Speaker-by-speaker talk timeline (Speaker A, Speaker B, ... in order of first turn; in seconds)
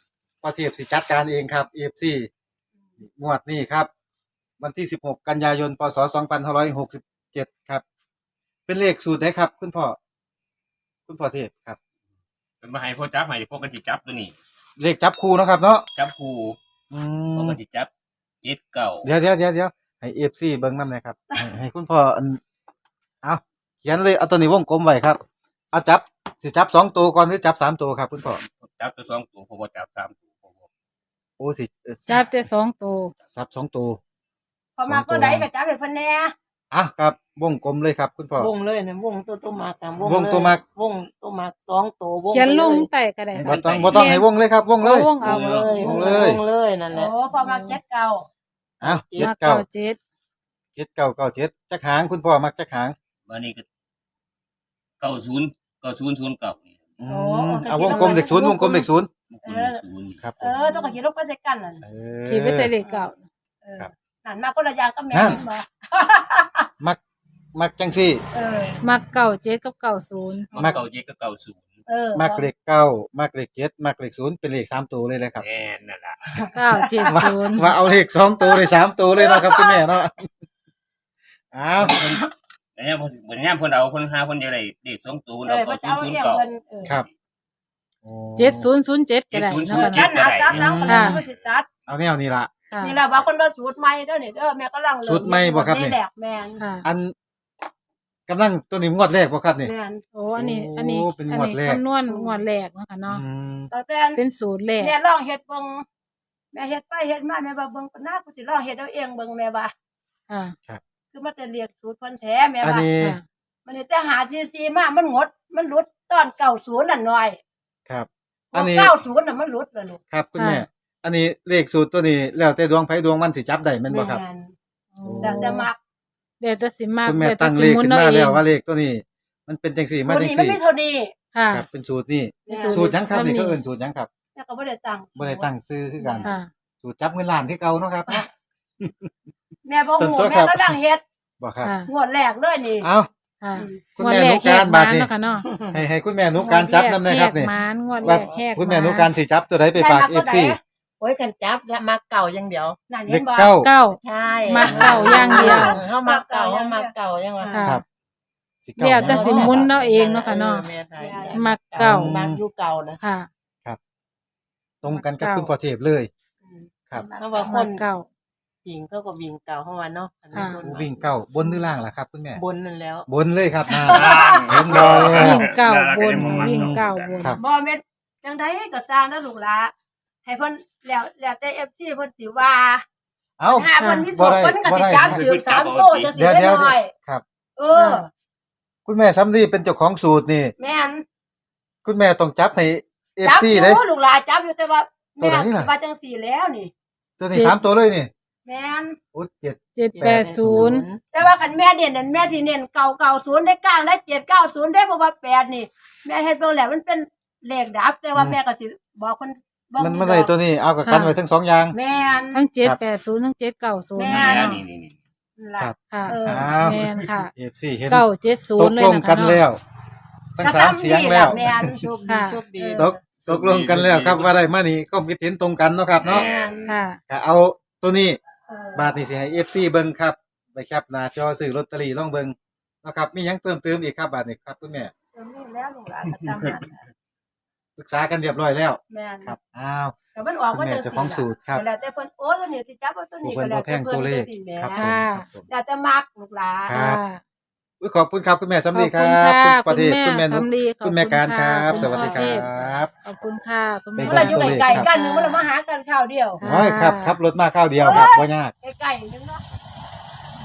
Speaker A: 0.4-2.3, 3.2-3.9, 4.6-7.8, 8.7-10.0, 11.1-11.8, 14.8-15.8, 16.9-17.6, 19.0-22.4, 23.2-25.2, 25.7-28.4, 31.4-32.1, 33.4-34.0, 34.9-35.5, 36.7-38.5, 40.0-40.6, 43.4-45.1, 45.8-46.4, 48.8-49.6, 50.8-53.0, 57.0-59.1, 60.2-60.6, 61.8-62.7, 65.1-65.4, 67.5-68.2, 72.2-75.5, 77.1-80.3, 81.5-82.2, 88.0-88.7, 90.5-91.2, 91.9-92.5, 95.0-96.0, 96.8-97.1, 98.3-99.7, 100.4-101.8, 103.1-103.7, 112.6-113.2, 117.9-118.9, 120.1-124.2, 125.0-125.6, 127.0-130.6, 131.5-134.1, 135.2-136.3, 136.8-138.3, 138.8-139.1, 140.0-140.8, 141.4-141.7, 142.8-143.1, 144.0-145.1, 145.7-150.6, 153.1-153.7, 158.7-159.7, 161.8-162.4, 164.8-166.1, 170.6-172.4, 173.1-175.4, 176.2-177.4, 183.4-185.2, 186.2-187.2, 188.9-190.6, 191.8-193.8, 195.2-195.7, 197.2-198.1, 199.1-200.7, 209.8-211.8, 216.3-216.8, 217.3-218.1, 218.6-219.6, 220.4-221.7, 222.8-226.3, 227.1-228.2, 228.8-234.9, 237.8-239.9, 240.5-241.6, 243.2-245.5, 246.7-247.0, 247.8-252.9, 254.0-254.9, 256.4-258.5
Speaker B: 12.6-14.3, 16.0-16.6, 17.4-17.9, 18.4-19.1, 28.4-30.7, 43.4-44.1, 45.2-45.8, 53.3-53.6, 55.0-56.7, 59.3-60.2, 70.5-71.6, 75.4-76.2, 82.8-86.5, 89.3-90.6, 173.9-177.1, 185.0-186.1, 214.1-214.9, 223.3-224.3, 226.0-226.7
Speaker C: 32.1-33.1, 42.3-44.3, 44.8-46.0, 49.2-50.0, 62.2-63.2, 68.8-70.5, 76.5-77.7, 88.4-90.1, 90.9-91.2, 92.7-93.0, 96.6-96.8, 100.2-103.2, 104.2-105.0, 110.3-110.5, 120.4-120.7, 125.0-125.7, 126.4-128.4, 131.3-131.7, 132.5-133.6, 136.2-136.5, 141.6-141.9, 143.4-145.5, 146.4-149.1, 153.6-155.8, 157.6-157.8, 158.8-160.7, 161.3-162.2, 163.0-163.3, 164.9-165.5, 167.4-168.1, 170.3-170.6, 175.2-177.4, 183.8-184.1, 187.8-188.0, 199.8-200.9, 210.8-211.2, 212.3-214.6, 215.9-217.3, 217.9-219.4, 222.1-222.5, 226.7-227.0, 244.7-245.3, 246.7-247.2, 248.7-255.4, 256.4-257.2
Speaker D: 34.8-36.3, 46.9-48.3, 57.1-58.9, 59.5-59.8, 60.4-61.8, 62.8-63.1, 63.6-66.7, 68.3-68.8, 71.9-72.5, 76.8-77.1, 79.2-79.8, 81.9-82.2, 85.5-87.0, 89.7-91.7, 92.8-96.6, 99.6-100.0, 102.1-102.4, 103.7-104.2, 104.8-105.8, 106.5-109.7, 111.1-112.9, 113.7-117.4, 118.5-120.0, 123.9-124.5, 125.2-125.8, 130.0-131.1, 132.5-132.8, 134.3-136.3, 139.7-141.0, 141.9-142.9, 143.5-144.0, 149.8-150.6, 152.9-153.6, 154.4-157.7, 161.0-161.5, 167.0-167.3, 173.7-175.0, 177.4-179.7, 180.3-182.8, 183.5-186.9, 187.6-188.1, 190.6-191.0, 193.2-196.7, 198.5-199.0, 201.0-210.3, 211.7-212.5, 214.0-214.6, 215.4-216.7, 220.4-223.0, 226.1-226.7, 228.5-228.8, 235.2-236.9, 238.9-239.3, 240.1-244.8, 245.5-246.8, 251.7-252.4, 254.0-256.4, 257.8-259.4
Speaker E: 38.4-42.9, 45.2-47.8, 48.8-49.3, 148.0-148.4, 151.0-152.8, 153.9-157.6, 158.9-163.0, 166.6-167.9, 168.6-171.1, 172.3-173.1, 199.9-201.0, 222.2-222.9